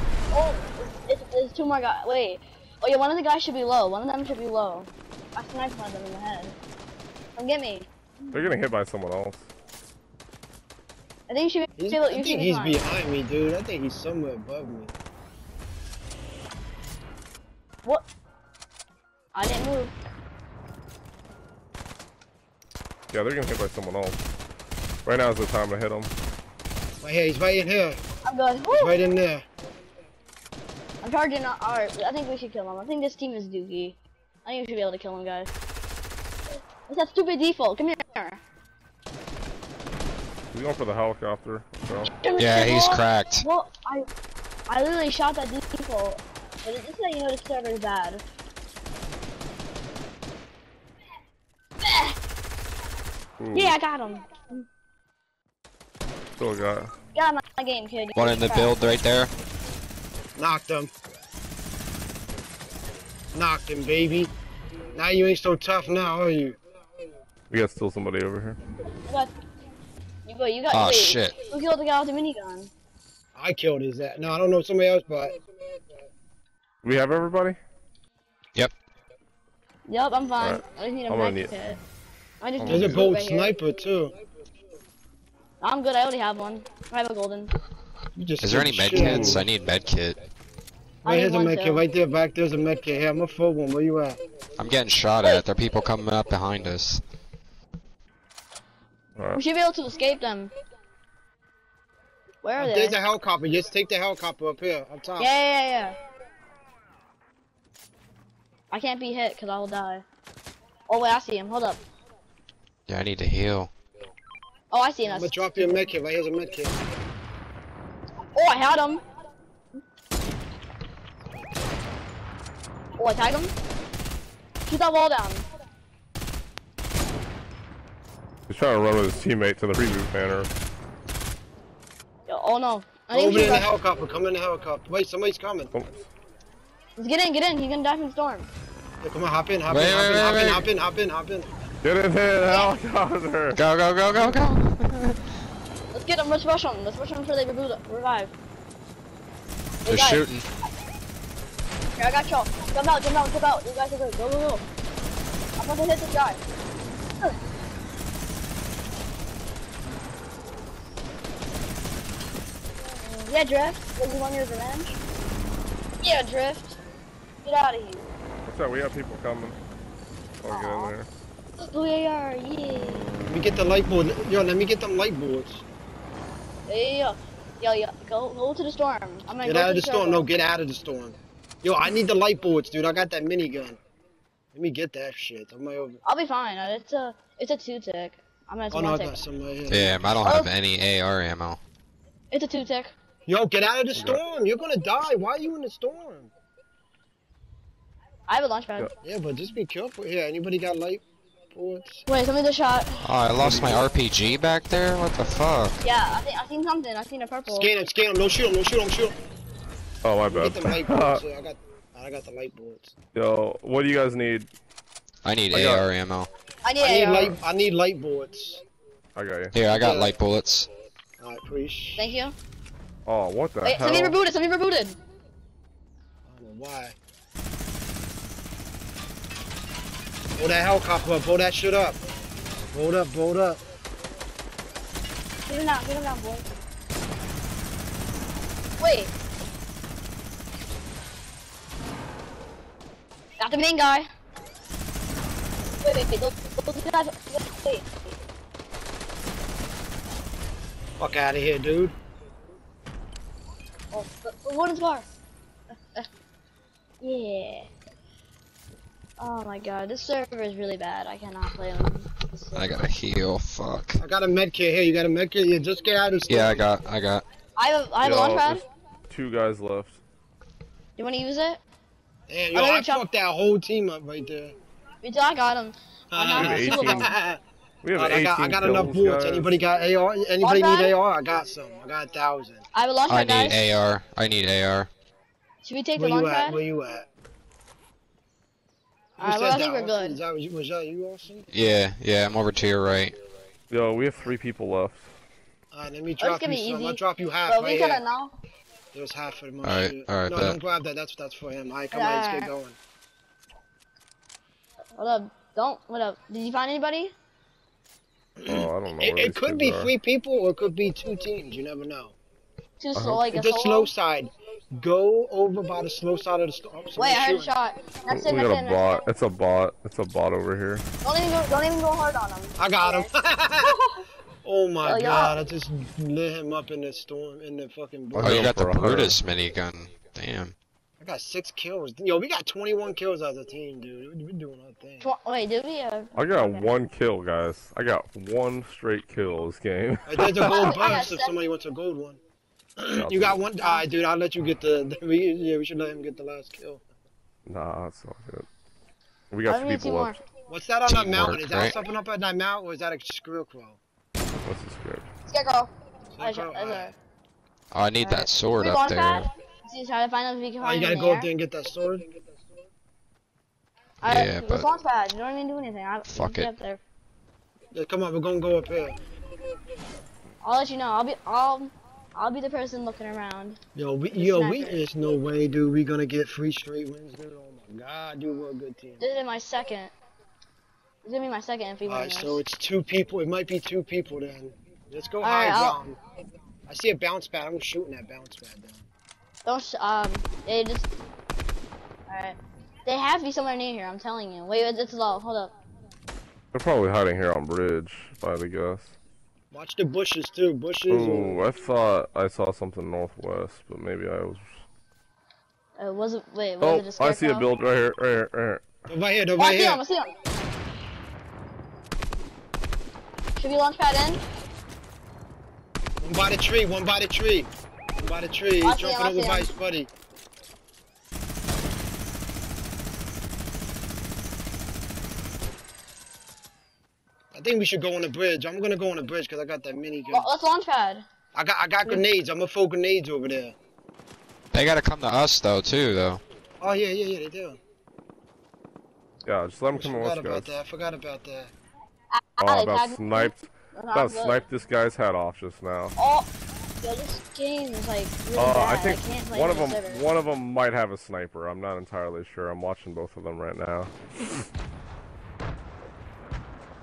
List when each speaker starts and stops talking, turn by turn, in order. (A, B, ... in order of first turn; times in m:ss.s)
0:00.3-0:06.6 A
0:07.4-0:08.4 A
0:08.3-0:09.5 B
0:11.3-0:12.8 A
0:11.8-0:14.9 C
0:19.3-0:19.9 A
0:23.1-0:24.2 B
0:25.0-0:26.1 B
0:27.0-0:28.0 C
0:28.2-0:29.0 A
0:28.6-0:29.4 C
0:31.0-0:35.5 A
0:36.9-0:38.4 A
0:40.5-0:42.1 B
0:42.0-0:44.1 A
0:42.4-0:43.4 D
0:44.7-0:48.2 A
0:51.8-0:52.2 A
0:53.4-0:53.8 B
0:53.5-0:54.6 A
0:56.4-0:56.9 B
0:57.1-0:58.7 A
0:58.2-0:59.3 D
1:00.3-1:00.9 C
1:03.3-1:04.3 C
1:04.9-1:06.6 C
1:07.5-1:08.6 B
1:09.0-1:09.3 A
1:10.2-1:12.7 A
1:10.7-1:11.3 D
1:13.3-1:15.4 C
1:16.8-1:17.6 B
1:19.9-1:21.8 A
1:20.4-1:21.6 B
1:22.4-1:23.5 A
1:22.6-1:23.0 B
1:22.7-1:24.2 C
1:25.6-1:27.5 A
1:28.2-1:29.4 C
1:28.4-1:30.2 D
1:28.9-1:29.4 B
1:31.0-1:31.8 A
1:31.0-1:34.2 C
1:34.6-1:37.0 D
1:39.2-1:39.4 B
1:39.3-1:40.5 A
1:42.4-1:43.0 A
1:42.6-1:45.3 C
1:45.2-1:46.0 A
1:48.7-1:50.0 A
1:50.9-1:51.8 A
1:52.9-1:53.7 D
1:54.7-1:55.9 A
1:55.0-1:56.8 C
1:58.3-1:59.0 A
2:03.0-2:03.5 A
2:04.7-2:05.4 A
2:08.5-2:10.5 B
2:12.3-2:13.7 A
2:13.1-2:15.8 C
2:17.0-2:18.4 A
2:19.0-2:21.5 C
2:19.7-2:20.7 D
2:21.8-2:23.6 B
2:22.4-2:22.7 A
2:23.5-2:25.2 D
2:25.9-2:28.3 A
2:29.8-2:30.2 A
2:29.9-2:30.4 D
2:32.0-2:34.6 A
2:35.6-2:36.4 A
2:43.0-2:44.9 A
2:46.0-2:46.8 A
2:47.4-2:48.0 A
2:48.4-2:49.6 B
2:50.4-2:51.1 B
2:50.4-2:50.9 A
2:51.6-2:53.3 A
2:53.3-2:55.6 C
2:56.7-3:00.3 A
2:59.4-3:03.8 C
3:04.5-3:06.0 C
3:06.0-3:09.2 A
3:08.7-3:10.0 C
3:09.7-3:11.6 D
3:10.2-3:10.5 A
3:12.3-3:12.9 A
3:13.2-3:16.3 C
3:13.9-3:14.2 B
3:18.3-3:18.9 A
3:19.0-3:22.1 C
3:22.1-3:23.0 A
3:23.0-3:25.8 D
3:25.8-3:27.7 A
3:27.5-3:29.2 C
3:30.0-3:31.2 B
3:30.3-3:32.9 C
3:33.1-3:34.5 B
3:35.2-3:36.3 D
3:35.5-3:35.9 B
3:36.6-3:37.4 A
3:36.8-3:38.6 C
3:39.2-3:39.5 B
3:39.5-3:40.7 D
3:39.7-3:40.2 C
3:41.2-3:42.1 C
3:42.0-3:42.4 A
3:43.0-3:44.2 B
3:43.6-3:45.0 A
3:46.2-3:47.0 C
3:50.4-3:52.0 C
3:52.7-3:53.6 C
3:55.4-3:56.4 A
3:58.8-3:59.1 A
4:03.4-4:04.1 A
4:05.8-4:07.9 A
4:11.0-4:11.9 C
4:13.9-4:15.0 A
4:17.0-4:17.7 A
4:19.2-4:22.6 A
4:22.5-4:24.0 D
4:24.0-4:26.6 C
4:26.3-4:27.2 D
4:27.6-4:28.6 A
4:28.0-4:30.0 B
4:31.0-4:31.6 A
4:32.3-4:34.6 C
4:32.5-4:33.1 A
4:35.0-4:37.1 A
4:36.1-4:37.4 C
4:36.3-4:37.1 B
4:37.8-4:39.6 B
4:38.0-4:42.6 C
4:40.4-4:41.0 A
4:42.7-4:43.6 A
4:43.1-4:44.9 D
4:45.6-4:46.6 A
4:46.0-4:47.1 C
4:49.2-4:51.5 C
4:49.2-4:50.2 A
4:51.5-4:53.2 D
4:53.7-4:55.1 B
4:55.7-4:58.0 C
4:56.2-4:58.3 A
4:58.9-5:02.8 C
4:59.6-5:00.6 D
5:01.9-5:02.5 A
5:05.0-5:07.1 A
5:08.4-5:12.2 C
5:08.4-5:09.9 B
5:12.8-5:13.9 A
5:12.9-5:13.2 B
5:13.3-5:17.5 C
5:17.0-5:19.0 A
5:18.1-5:20.8 B
5:21.0-5:23.1 A
5:22.6-5:23.8 C
5:23.6-5:23.9 A
5:24.4-5:28.5 C
5:24.8-5:25.4 A
5:28.1-5:29.2 B
5:28.2-5:30.5 D
5:31.0-5:35.1 C
5:35.0-5:36.7 A
5:36.1-5:40.7 B
5:40.0-5:42.2 C
5:40.4-5:41.3 A
5:42.8-5:46.8 C
5:42.9-5:43.4 B
5:47.4-5:48.5 B
5:49.3-5:50.2 B
5:49.5-5:50.2 A
5:50.5-5:53.8 C
5:50.8-5:51.8 D
5:54.4-5:55.1 B
5:55.3-5:57.0 A
5:56.1-5:56.9 C
5:57.7-5:59.3 D
5:58.0-6:01.3 A
6:00.6-6:02.1 C
6:04.0-6:06.8 A
6:04.0-6:04.7 D
6:06.1-6:06.5 D
6:07.7-6:09.0 C
6:10.4-6:13.6 A
6:13.7-6:19.0 C
6:14.1-6:14.8 A
6:19.0-6:19.9 A
6:21.0-6:22.4 A
6:21.8-6:26.0 C
6:25.2-6:25.8 A
6:26.7-6:28.9 C
6:29.4-6:31.0 A
6:32.1-6:35.5 A
6:36.5-6:38.9 B
6:39.5-6:41.4 C
6:40.9-6:44.6 B
6:45.8-6:47.5 A
6:46.6-6:48.7 B
6:48.9-6:49.8 C
6:49.4-6:50.2 A
6:53.4-6:54.2 A
6:56.0-6:59.9 C
6:58.6-6:59.5 A
7:07.3-7:10.3 C
7:10.1-7:11.0 A
7:11.3-7:13.5 C
7:14.5-7:16.2 D
7:16.6-7:17.6 C
7:19.2-7:20.5 B
7:19.7-7:21.5 C
7:22.1-7:24.4 A
7:22.4-7:25.9 B
7:26.0-7:26.3 A
7:26.8-7:30.0 A
7:28.4-7:34.4 B